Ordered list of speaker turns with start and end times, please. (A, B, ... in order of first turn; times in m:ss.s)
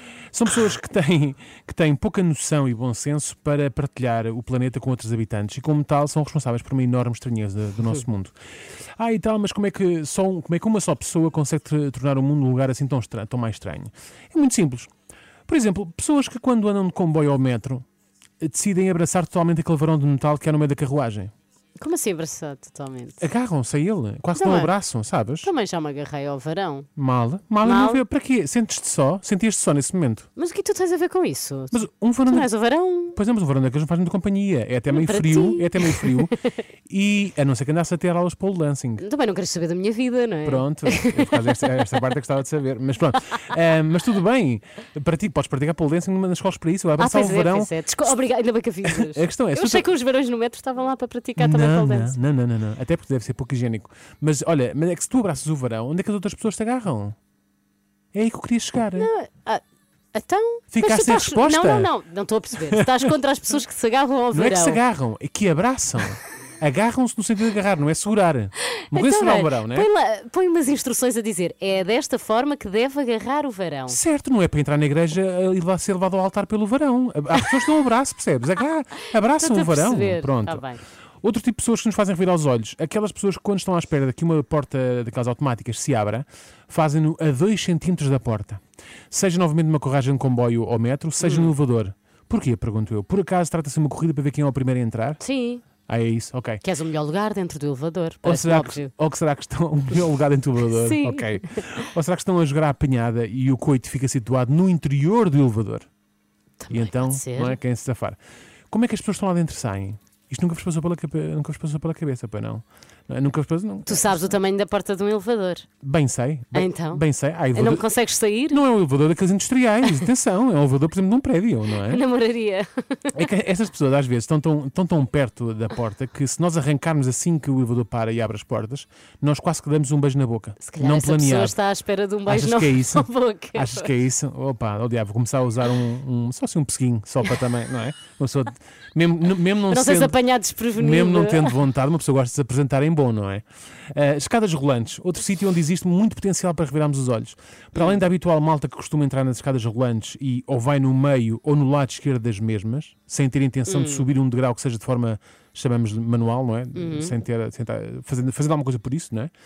0:00.3-0:08.3 A
0:09.0-0:14.9 A
0:15.5-0:17.8 A
0:18.4-0:21.3 A
0:21.8-0:23.2 B
0:23.2-0:25.5 A
0:24.3-0:24.7 B
0:25.4-0:26.9 B
0:27.0-0:30.3 A
0:27.6-0:28.0 B
0:30.4-0:33.2 B
0:31.7-0:32.5 A
0:33.0-0:36.3 A
0:34.9-0:36.5 B
0:36.9-0:39.0 A
0:39.0-0:41.8 B
0:40.4-0:48.1 A
0:47.0-0:52.2 B
0:48.8-0:49.9 A
0:51.4-0:57.1 A
0:58.1-0:59.1 A
0:58.9-0:59.6 B
1:00.1-1:04.8 B
1:00.7-1:01.9 A
1:04.3-1:09.9 A
1:08.8-1:14.0 B
1:13.9-1:20.6 A
1:19.4-1:20.8 B
1:21.2-1:35.2 A
1:31.2-1:31.5 B
1:35.2-1:35.6 B
1:35.9-1:36.6 A
1:36.6-1:38.9 B
1:38.2-1:45.9 A
1:40.8-1:41.8 B
1:46.6-1:47.6 B
1:46.7-1:48.2 A
1:48.7-1:54.4 A
1:53.8-1:55.6 B
1:55.8-1:57.9 A
1:56.5-1:58.6 B
1:58.5-2:02.0 A
2:01.8-2:03.2 B
2:03.1-2:11.6 A
2:10.6-2:13.9 B
2:12.2-2:20.2 A
2:19.7-2:21.5 B
2:20.8-2:39.3 A
2:33.6-2:34.1 B
2:36.7-2:37.1 B